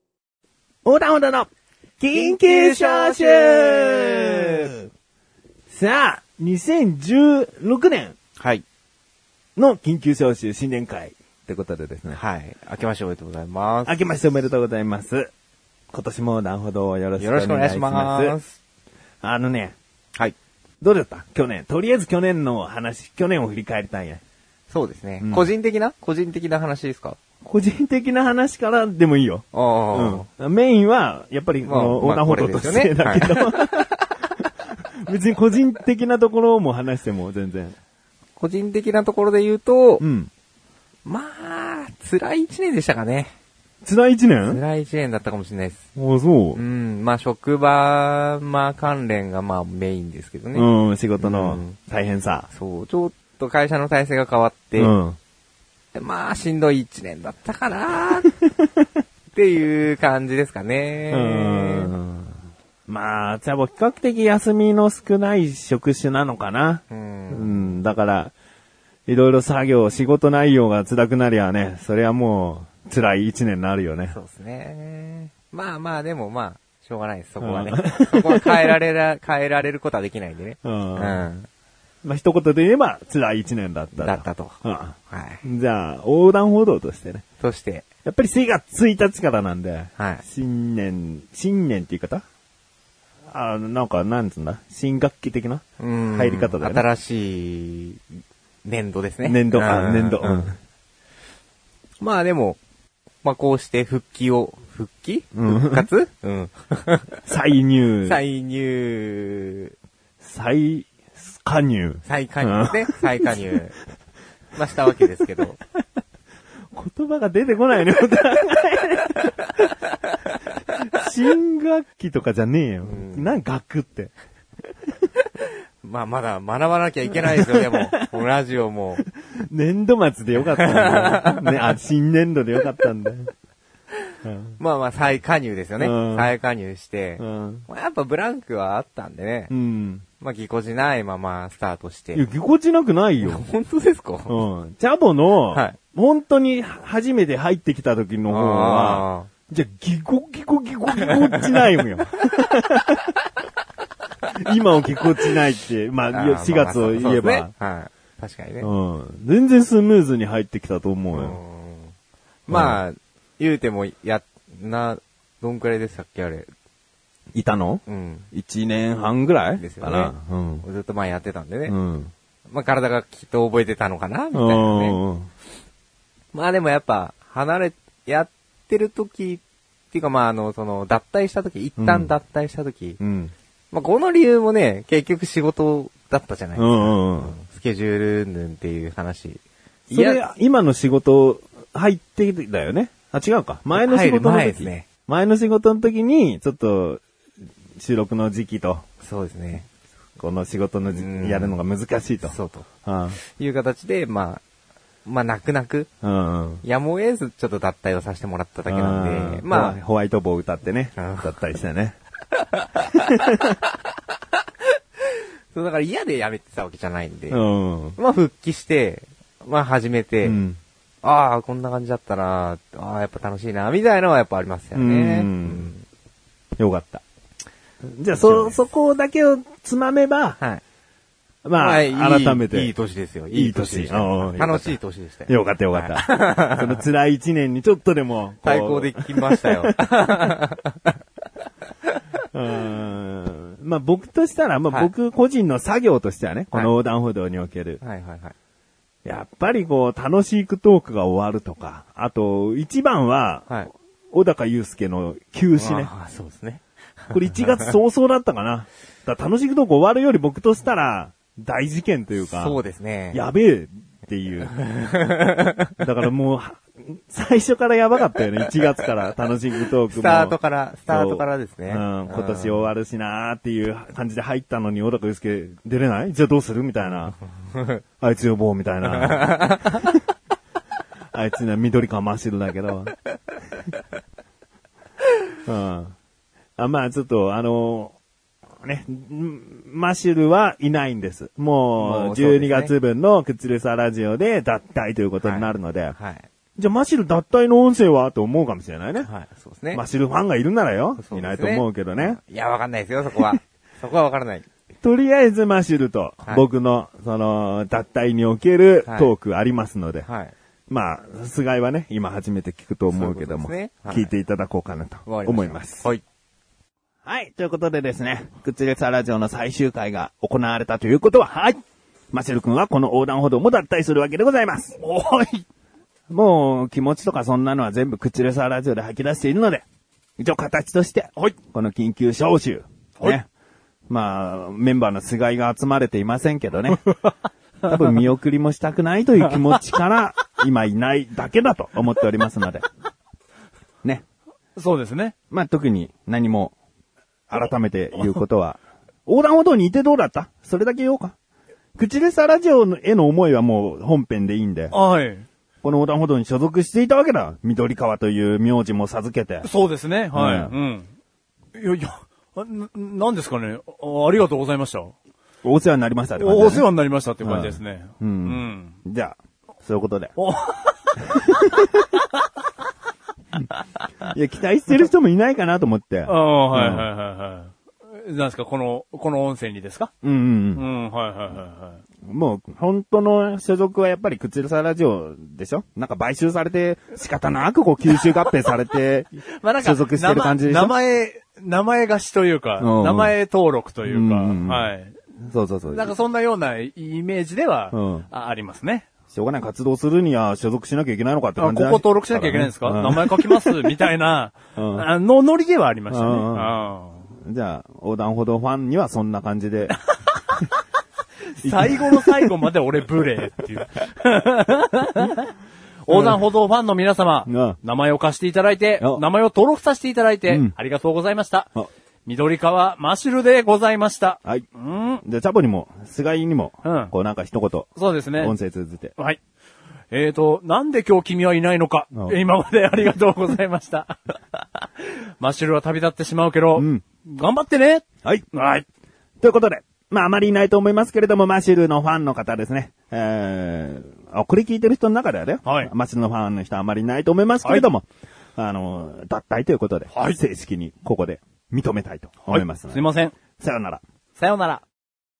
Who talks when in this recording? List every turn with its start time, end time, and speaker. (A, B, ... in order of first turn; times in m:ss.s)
0:00.8-0:04.8 A
0:02.1-0:04.7 B
0:05.7-0:08.2 A
0:08.4-0:08.6 B
0:09.6-0:12.2 A
0:12.1-0:14.1 B
0:13.8-0:15.3 A
0:15.9-0:18.4 A
0:17.2-0:18.6 B
0:19.2-0:19.7 A
0:20.8-0:24.2 A
0:24.7-0:27.2 B
0:25.2-0:25.5 A
0:27.4-0:33.9 A
0:29.5-0:30.3 B
0:31.6-0:33.8 B
0:35.0-0:37.8 A
0:38.4-0:40.0 B
0:40.0-0:40.3 A
0:41.0-0:43.3 B
0:43.8-0:44.6 A
0:44.4-0:45.8 B
0:45.9-0:46.6 A
0:46.5-0:51.8 B
0:50.5-0:52.5 A
0:52.5-0:55.0 B
0:54.8-0:55.2 A
0:55.9-0:58.3 B
0:59.3-1:01.9 B
1:01.1-1:08.3 A
1:06.9-1:07.8 B
1:09.1-1:14.2 A
1:14.1-1:21.5 B
1:17.4-1:18.8 A
1:20.6-1:21.2 A
1:22.0-1:27.2 A
1:24.0-1:25.4 B
1:27.4-1:27.8 B
1:28.0-1:32.2 A
1:30.0-1:30.2 B
1:33.3-1:36.8 A
1:35.8-1:38.0 B
1:38.6-1:40.5 B
1:39.2-1:40.6 A
1:42.0-1:42.6 B
1:43.2-1:47.2 B
1:45.3-1:45.9 A
1:47.2-1:48.2 A
1:48.0-1:49.7 B
1:50.2-1:53.4 A
1:52.0-1:53.8 B
1:54.5-1:55.6 B
1:56.7-1:59.5 A
2:00.9-2:04.1 A
2:02.8-2:03.4 B
2:05.8-2:09.0 B
2:07.3-2:08.0 A
2:09.4-2:13.3 A
2:10.5-2:11.6 B
2:14.2-2:14.6 A
2:14.6-2:19.5 B
2:15.8-2:16.3 A
2:17.2-2:17.7 A
2:19.5-2:20.0 A
2:20.2-2:22.2 B
2:22.1-2:23.4 A
2:23.2-2:24.4 B
2:24.3-2:33.1 A
2:25.5-2:25.8 B
2:28.3-2:29.3 B
2:31.0-2:31.8 B
2:34.4-2:37.5 A
2:36.1-2:38.7 B
2:38.6-2:41.4 A
2:41.1-2:41.9 B
2:42.5-2:46.5 B
2:42.5-2:42.8 A
2:47.3-2:50.6 A
2:47.8-2:48.3 B
2:49.6-2:51.8 B
2:51.7-2:52.1 A
2:52.5-2:55.0 B
2:54.3-2:55.3 A
2:56.3-3:03.0 B
3:01.8-3:02.1 A
3:03.0-3:03.3 A
3:03.7-3:10.2 B
3:06.5-3:07.4 A
3:09.9-3:17.0 A
3:13.7-3:14.9 B
3:17.8-3:18.8 A
3:19.0-3:19.7 B
3:20.2-3:23.2 A
3:20.9-3:21.6 B
3:22.2-3:22.6 B
3:23.2-3:24.4 B
3:25.0-3:25.9 B
3:26.0-3:26.6 A
3:26.6-3:29.8 B
3:28.6-3:32.0 A
3:31.0-3:31.4 B
3:32.6-3:32.8 B
3:33.0-3:33.4 A
3:35.5-3:37.4 B
3:37.3-3:38.0 A
3:38.0-3:40.4 B
3:40.2-3:40.6 A
3:41.0-3:45.8 B
3:44.7-3:45.7 A
3:46.6-3:47.0 A
3:48.0-3:50.4 A
3:48.1-3:48.6 B
3:51.4-3:52.7 A
3:51.6-3:56.8 B
3:53.3-4:00.1 A
3:58.4-4:01.0 B
4:02.3-4:07.8 A
4:07.8-4:08.3 B
4:09.0-4:15.9 A
4:15.6-4:17.7 B
4:17.1-4:22.6 A
4:22.2-4:23.2 B
4:23.1-4:24.5 A
4:24.6-4:25.7 B
4:25.8-4:30.4 A
4:29.8-4:32.7 B
4:30.9-4:37.2 A
4:38.0-4:40.0 A
4:39.1-4:39.7 B
4:41.1-4:42.9 A
4:45.4-4:45.9 A
4:46.6-4:48.0 A
4:48.6-4:56.0 A
4:51.8-4:52.7 B
4:55.2-4:56.3 B
4:56.6-4:59.1 A
4:59.0-4:59.8 B
4:59.7-5:02.2 A
5:01.0-5:04.4 B
5:04.8-5:10.1 A
5:08.8-5:09.1 B
5:10.0-5:10.3 B
5:10.7-5:15.9 A
5:12.9-5:14.1 B
5:15.0-5:16.0 B
5:17.0-5:21.6 A
5:22.1-5:24.8 A
5:24.8-5:25.4 C
5:26.1-5:29.6 A
5:30.2-5:33.3 A
5:33.9-5:36.8 A
5:37.6-5:42.6 A
5:44.6-5:45.1 C
5:45.3-5:46.5 A
5:47.3-5:51.1 A
5:51.8-5:54.8 A
5:54.7-5:55.2 C
5:55.6-5:59.5 A
5:59.4-6:00.9 C
6:00.1-6:00.5 A
6:01.5-6:04.9 C
6:05.4-6:06.7 A
6:06.2-6:08.7 C
6:07.2-6:10.1 A
6:10.2-6:11.2 C
6:11.2-6:11.8 A
6:11.8-6:12.2 C
6:14.0-6:16.9 A
6:16.0-6:19.9 C
6:20.0-6:20.6 A
6:20.6-6:21.8 C
6:22.0-6:30.8 A
6:29.4-6:35.0 C
6:32.6-6:33.2 A
6:33.8-6:34.7 A
6:35.2-6:35.9 A
6:35.7-6:38.9 C
6:37.7-6:38.1 A
6:39.1-6:43.9 A
6:41.4-6:47.0 C
6:44.5-6:44.9 A
6:45.9-6:46.6 A
6:47.1-6:49.8 A
6:50.1-6:50.4 C
6:51.4-6:55.3 C
6:51.4-6:52.4 A
6:55.8-7:01.5 C
6:55.9-6:56.2 A
6:57.2-6:57.6 A
6:58.8-6:59.0 A
7:00.3-7:00.5 A
7:02.0-7:05.0 C
7:05.0-7:08.9 A
7:06.6-7:06.9 C
7:07.8-7:08.3 C
7:09.9-7:18.6 C
7:11.9-7:12.2 A
7:16.6-7:16.8 A
7:19.2-7:32.8 A
7:25.4-7:25.7 C
7:32.2-7:33.1 C
7:33.4-7:33.8 A
7:34.2-7:34.6 C